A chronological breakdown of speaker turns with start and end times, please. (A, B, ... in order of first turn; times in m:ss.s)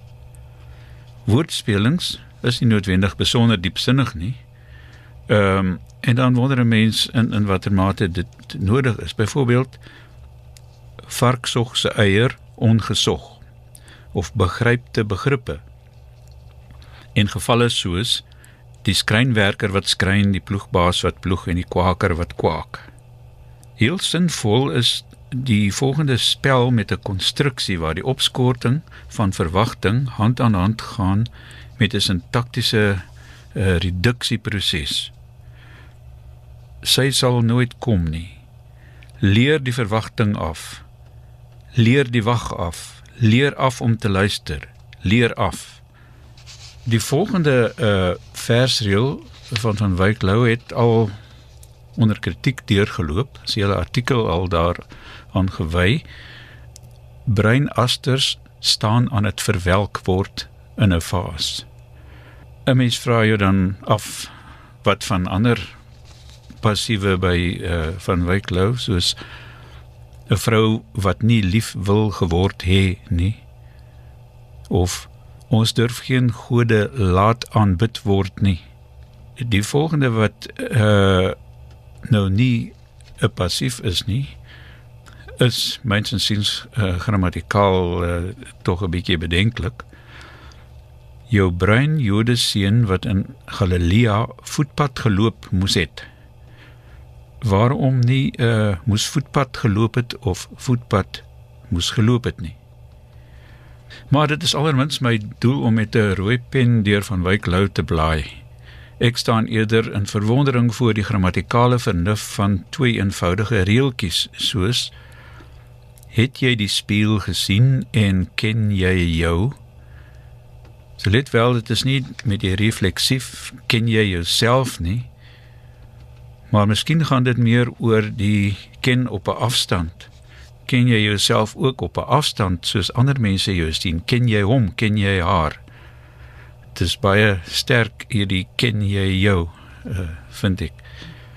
0:01.2-0:04.4 A
0:05.3-0:09.8 A
0:11.1-0:13.4 A
0:14.1-0:15.6 A
0:17.1-0:18.2 A
0:18.8-0:22.8 A
0:23.8-0:33.0 A
0:33.5-0:35.1 A
0:36.8-0:38.4 A
0:39.2-0:40.8 A
0:41.7-0:45.8 A
0:46.8-0:51.1 A
0:52.0-0:56.0 A
0:57.2-1:01.6 A
1:02.6-1:04.3 A
1:04.8-1:05.7 A
1:06.6-1:09.2 A
1:10.3-1:13.4 A
1:14.7-1:18.6 A
1:19.4-1:21.4 A
1:22.1-1:24.4 A
1:25.4-1:29.8 A
1:31.3-1:36.0 A
1:37.4-1:42.5 A
1:44.1-1:48.3 A
1:49.0-1:54.9 A
1:56.1-1:59.6 A
2:01.0-2:05.1 A
2:06.5-2:10.1 A
2:10.7-2:15.6 A
2:16.7-2:20.8 A